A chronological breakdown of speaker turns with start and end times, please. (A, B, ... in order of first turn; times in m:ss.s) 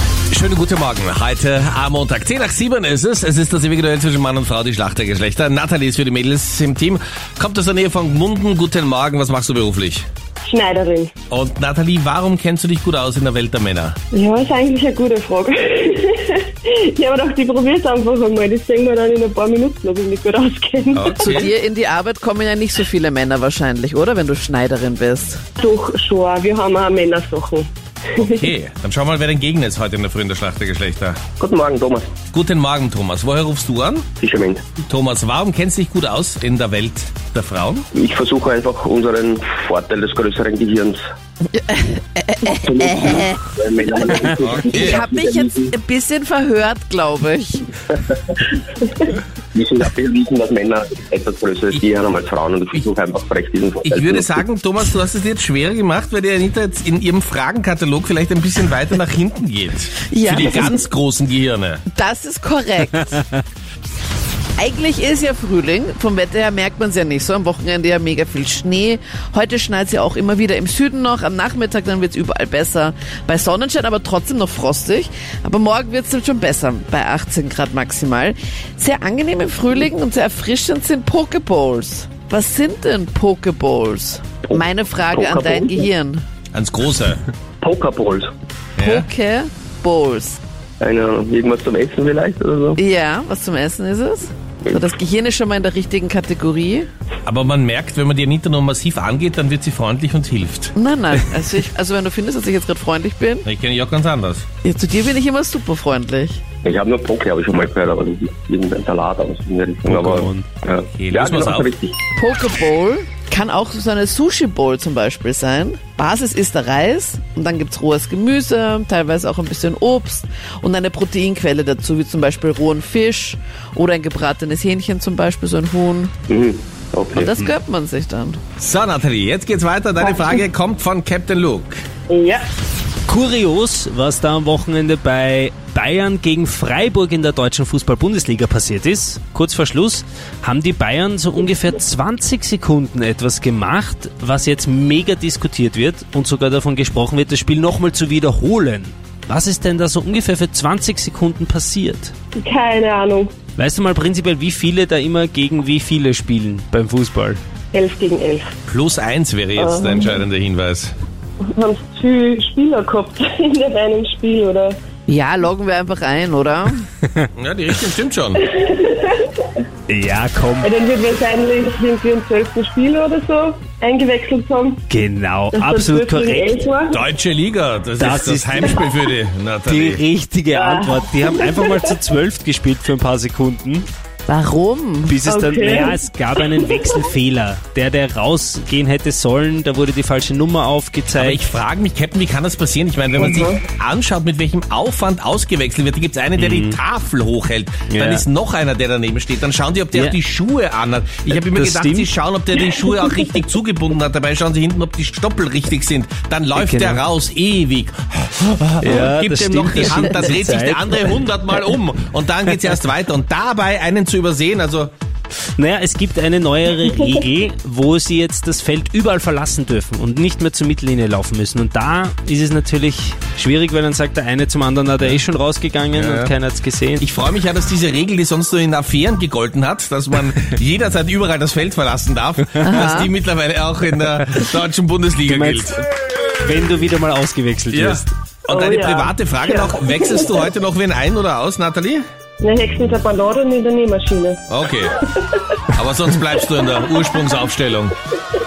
0:00.3-0:10.1 A
0:10.4-0:11.1 B
0:11.3-0:14.0 A
0:14.1-0:21.5 B
0:20.9-0:21.5 A
0:21.3-0:25.4 C
0:25.6-0:28.4 B
0:28.2-0:31.2 A
0:31.4-0:32.1 D
0:32.3-0:34.1 A
0:34.2-0:34.7 D
0:34.8-0:37.9 A
0:37.9-0:41.0 D
0:41.5-0:43.4 C
0:42.5-0:45.7 D
0:44.4-0:45.0 A
0:44.7-0:47.7 C
0:49.5-0:54.4 D
0:53.8-1:01.8 A
1:00.1-1:00.7 C
1:01.9-1:03.2 C
1:04.6-1:26.2 C
1:24.4-1:25.9 D
1:26.5-1:27.2 A
1:27.6-1:28.3 D
1:28.8-1:29.1 A
1:28.8-1:30.4 C
1:30.8-1:32.8 D
1:32.8-1:36.9 C
1:37.3-1:40.7 A
1:40.8-1:43.4 C
1:43.4-1:44.5 A
1:44.6-1:46.4 C
1:46.6-1:52.0 D
1:49.8-1:50.5 E
1:50.8-1:51.7 A
1:52.2-2:06.1 C
2:06.3-2:07.3 D
2:07.2-2:08.4 C
2:08.6-2:11.8 A
2:12.1-2:12.5 B
2:13.1-2:32.1 E
2:32.4-2:33.4 B
2:33.6-2:37.4 E
2:37.7-2:38.5 B
2:38.7-2:41.0 A
2:39.6-2:40.2 B
2:41.5-2:44.8 B
2:45.1-2:46.9 C
2:47.4-2:48.4 A
2:48.4-2:49.5 B
2:49.9-2:50.7 E
2:50.6-2:54.8 B
2:54.9-2:56.6 E
2:55.5-2:57.0 B
2:56.9-3:00.0 A
2:58.0-2:58.8 E
2:59.7-3:03.9 E
3:00.5-3:01.9 B
3:04.3-3:05.2 C
3:05.1-3:11.5 E
3:05.2-3:07.0 B
3:11.2-3:34.9 A
3:13.2-3:13.6 B
3:16.4-3:16.8 E
3:17.9-3:18.2 E
3:21.3-3:22.1 E
3:26.6-3:27.0 E
3:28.8-3:31.2 E
3:35.6-3:47.0 E
3:45.9-3:46.3 A
3:47.0-3:55.8 A
3:52.6-3:53.1 C
3:55.3-3:55.8 E
3:56.4-3:58.1 E
3:57.7-4:02.0 A
3:58.5-4:00.4 B
4:02.4-4:04.4 B
4:04.5-4:05.0 A
4:05.7-4:08.0 A